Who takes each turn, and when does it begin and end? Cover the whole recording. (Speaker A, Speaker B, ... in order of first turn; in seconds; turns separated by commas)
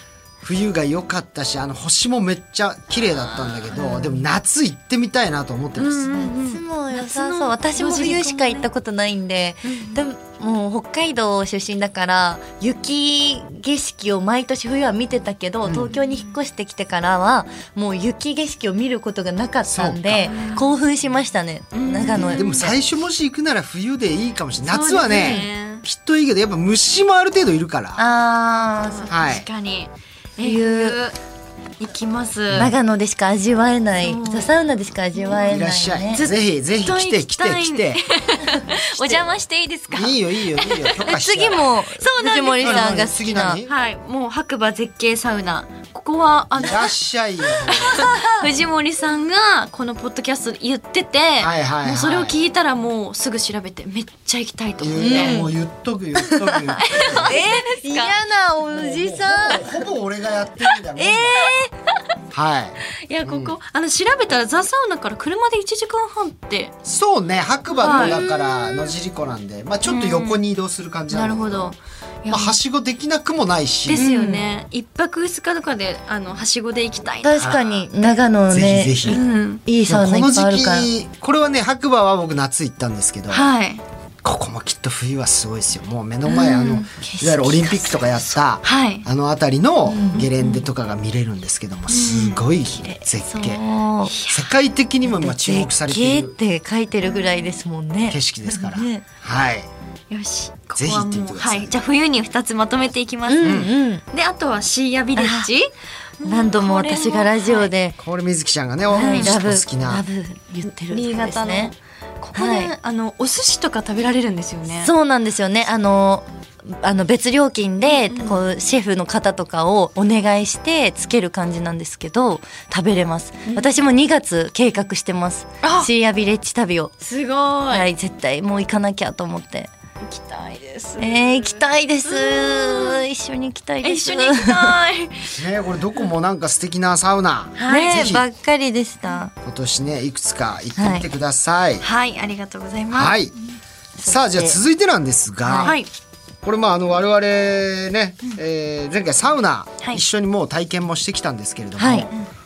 Speaker A: 0.4-6.1, Speaker B: 3.7-4.2, Speaker C: 5.8-8.7, Speaker B: 6.1-22.6, Speaker C: 9.6-10.0, Speaker A: 15.6-15.9, Speaker C: 16.0-16.4, Speaker A: 19.7-20.3, Speaker C: 20.2-20.7, Speaker C: 21.7-22.7, Speaker A: 22.1-28.0, Speaker C: 24.6-25.8, Speaker B: 27.9-29.1, Speaker C: 28.8-31.1, Speaker A: 29.1-29.4, Speaker B: 30.4-31.0, Speaker C: 31.8-32.7, Speaker B: 32.5-36.2, Speaker C: 34.0-34.5, Speaker C: 35.2-35.6, Speaker A: 35.5-38.0, Speaker C: 36.1-41.1, Speaker B: 38.5-39.2, Speaker A: 39.9-41.6, Speaker B: 41.0-43.6, Speaker C: 42.0-43.0, Speaker A: 42.6-43.7, Speaker C: 43.6-46.9, Speaker A: 46.5-48.0, Speaker C: 47.7-55.4, Speaker B: 47.8-48.5, Speaker A: 51.4-52.4, Speaker A: 54.8-57.4, Speaker B: 55.0-55.5, Speaker B: 56.2-56.6, Speaker C: 56.8-58.2, Speaker B: 57.2-59.8, Speaker A: 58.7-61.5, Speaker B: 61.0-61.7, Speaker C: 61.4-61.7, Speaker A: 62.3-63.5, Speaker C: 63.1-66.7, Speaker A: 66.8-71.7, Speaker C: 67.8-68.9, Speaker B: 67.8-68.2, Speaker C: 69.8-70.4, Speaker C: 71.1-72.6, Speaker A: 72.3-74.0, Speaker C: 73.9-77.6, Speaker B: 73.9-74.5, Speaker B: 77.2-80.9, Speaker A: 77.4-77.8, Speaker A: 78.5-79.2, Speaker C: 79.0-79.6, Speaker A: 79.9-83.5, Speaker C: 83.3-83.8, Speaker A: 84.2-93.6, Speaker C: 86.3-87.1, Speaker B: 87.0-88.2, Speaker C: 88.6-89.0, Speaker B: 89.8-90.2, Speaker C: 90.1-90.7, Speaker C: 91.9-93.0, Speaker B: 93.2-94.1, Speaker C: 94.1-94.5, Speaker A: 94.3-96.3, Speaker B: 95.0-99.0, Speaker A: 98.1-99.7, Speaker C: 100.1-107.7, Speaker A: 100.8-101.7, Speaker B: 103.3-104.0, Speaker A: 103.4-103.7, Speaker B: 105.2-105.5, Speaker B: 106.2-108.0, Speaker A: 108.0-110.0, Speaker B: 108.9-111.7, Speaker C: 108.9-109.3, Speaker C: 110.9-114.9, Speaker B: 112.3-112.7, Speaker B: 114.7-126.9, Speaker C: 117.8-118.4, Speaker C: 123.5-123.7, Speaker C: 125.6-125.9, Speaker C: 127.0-127.9, Speaker B: 127.7-129.7, Speaker C: 130.0-133.0, Speaker B: 131.0-134.8, Speaker C: 133.8-135.3, Speaker A: 135.3-138.2, Speaker C: 137.6-138.1, Speaker B: 137.7-139.3, Speaker A: 139.4-141.8, Speaker B: 140.8-141.1, Speaker C: 141.8-143.2, Speaker A: 142.9-143.3, Speaker B: 144.0-144.6, Speaker A: 144.1-145.8, Speaker B: 145.4-145.7, Speaker A: 146.4-152.1, Speaker B: 151.8-152.1